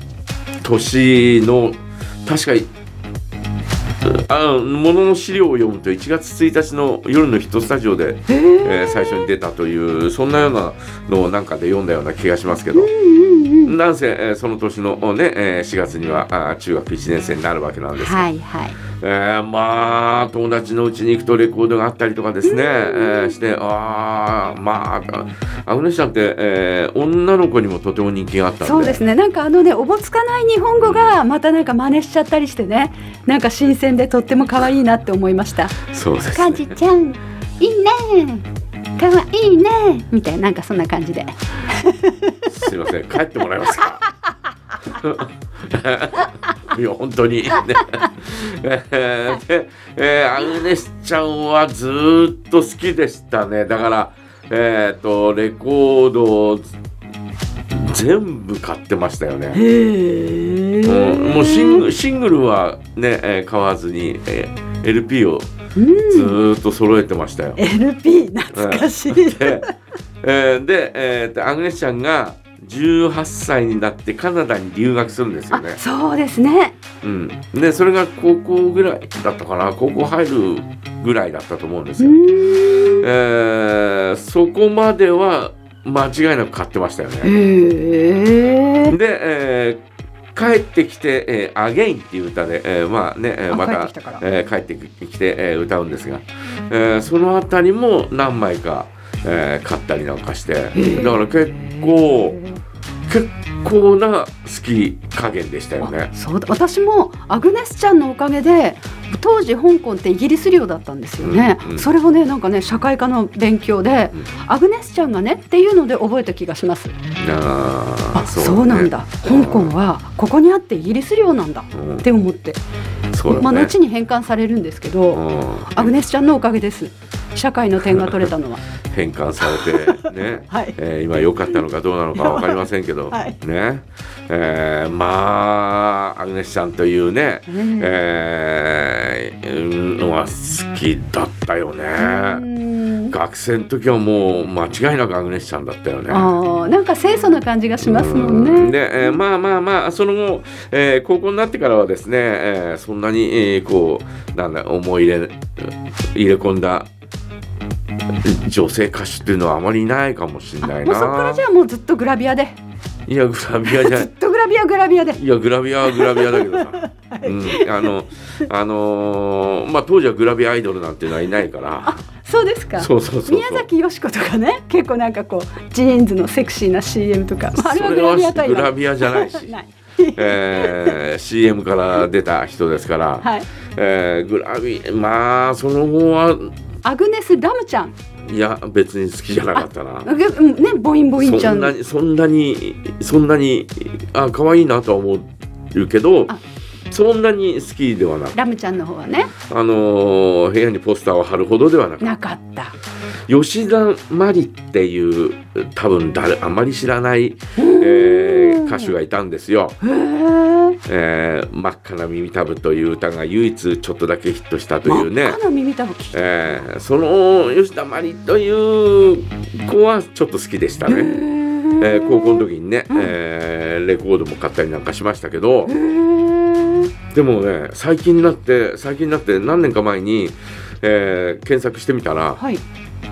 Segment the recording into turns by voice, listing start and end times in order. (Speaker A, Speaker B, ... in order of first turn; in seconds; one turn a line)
Speaker A: 0.6-2.7
Speaker A: 4.0-12.9
Speaker B: 8.3-9.3
Speaker B: 12.7-13.7
Speaker A: 13.7-18.3
Speaker B: 17.9-18.8
Speaker A: 19.0-29.0
Speaker B: 22.4-23.4
Speaker B: 28.6-35.8
Speaker A: 30.8-31.1
Speaker A: 35.9-36.8
Speaker B: 36.3-42.5
Speaker A: 42.5-44.0
Speaker A: 44.9-56.7
Speaker A: 57.7-59.6
Speaker B: 59.5-61.8
Speaker A: 60.8-65.5
Speaker B: 65.8-66.4
Speaker A: 66.1-67.6
Speaker B: 67.6-69.7
Speaker A: 68.5-69.7
Speaker A: 70.2-75.8
Speaker B: 75.5-76.8
Speaker A: 77.0-82.2
Speaker B: 82.0-83.1
Speaker A: 83.0-87.3
Speaker B: 87.2-89.0
Speaker A: 88.9-89.8
Speaker A: 90.3-102.4
Speaker B: 93.5-94.2
Speaker B: 100.7-102.6
Speaker A: 103.1-106.1
Speaker B: 105.8-117.0
Speaker A: 111.2-111.8
Speaker A: 117.2-119.7
Speaker B: 118.1-122.6
Speaker A: 121.7-122.0
Speaker A: 123.1-123.7
Speaker B: 123.3-125.2
Speaker A: 125.1-125.9
Speaker B: 125.7-128.6
Speaker A: 127.8-128.3
Speaker A: 128.9-142.4
Speaker B: 129.4-130.8
Speaker B: 132.1-133.4
Speaker B: 137.5-137.9
Speaker B: 141.9-143.2
Speaker A: 143.1-146.3
Speaker B: 146.1-149.2
Speaker A: 147.8-156.9
Speaker A: 158.2-161.4
Speaker B: 160.6-162.6
Speaker A: 163.1-164.1
Speaker B: 163.6-165.2
Speaker A: 165.2-172.0
Speaker B: 165.8-167.9
Speaker B: 171.8-181.0
Speaker A: 172.8-173.7
Speaker A: 177.5-179.5
Speaker A: 180.2-186.5
Speaker B: 183.2-183.5
Speaker B: 186.8-187.9
Speaker A: 188.3-190.1
Speaker B: 189.5-191.7
Speaker A: 191.2-196.3
Speaker A: 196.9-198.3
Speaker B: 198.3-199.3
Speaker A: 199.5-202.2
Speaker B: 202.0-202.7
Speaker A: 203.3-209.8
Speaker B: 207.6-208.9
Speaker B: 209.8-210.8
Speaker A: 210.8-215.4
Speaker B: 214.8-216.7
Speaker A: 216.1-221.2
Speaker B: 220.9-223.1
Speaker A: 221.8-225.7
Speaker B: 225.7-226.9
Speaker A: 227.1-232.4